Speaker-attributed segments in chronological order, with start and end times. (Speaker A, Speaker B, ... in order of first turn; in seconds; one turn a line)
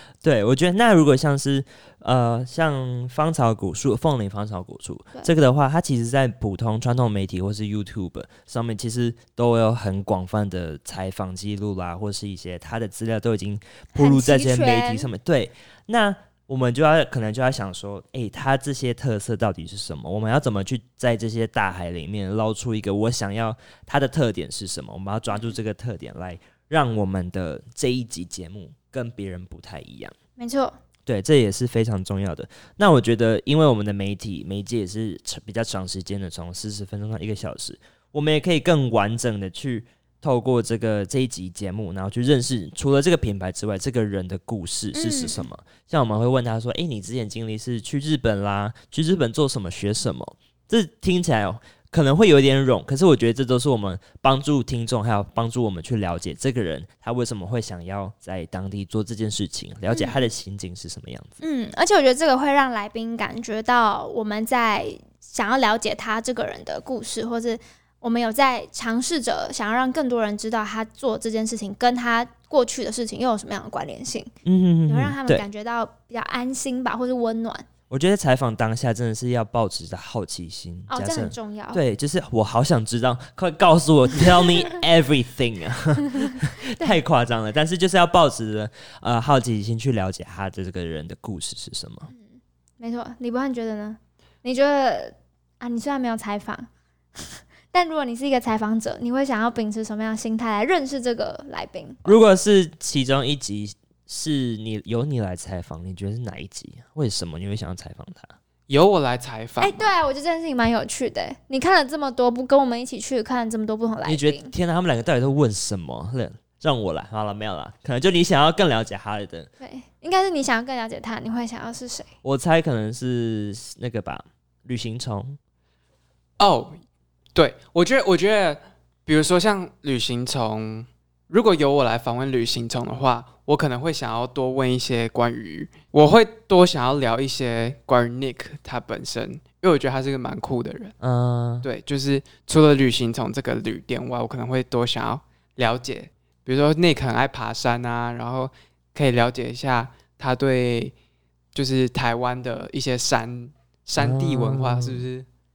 Speaker A: 0.2-30.1
Speaker B: 13.9-15.1
Speaker B: 30.4-30.8
Speaker A: 31.1-61.4
Speaker B: 44.9-45.5
Speaker B: 59.9-60.2
Speaker B: 61.4-74.3
Speaker A: 74.4-75.4
Speaker B: 74.9-77.7
Speaker A: 77.9-92.1
Speaker B: 80.9-81.8
Speaker B: 86.2-87.0
Speaker B: 92.1-102.1
Speaker A: 102.0-108.3
Speaker C: 108.7-109.9
Speaker B: 109.6-114.5
Speaker A: 114.0-119.5
Speaker B: 119.6-122.1
Speaker A: 122.2-125.4
Speaker C: 126.4-126.8
Speaker C: 127.3-140.9
Speaker A: 141.0-141.7
Speaker C: 141.6-150.9
Speaker C: 151.6-155.3
Speaker A: 154.0-155.1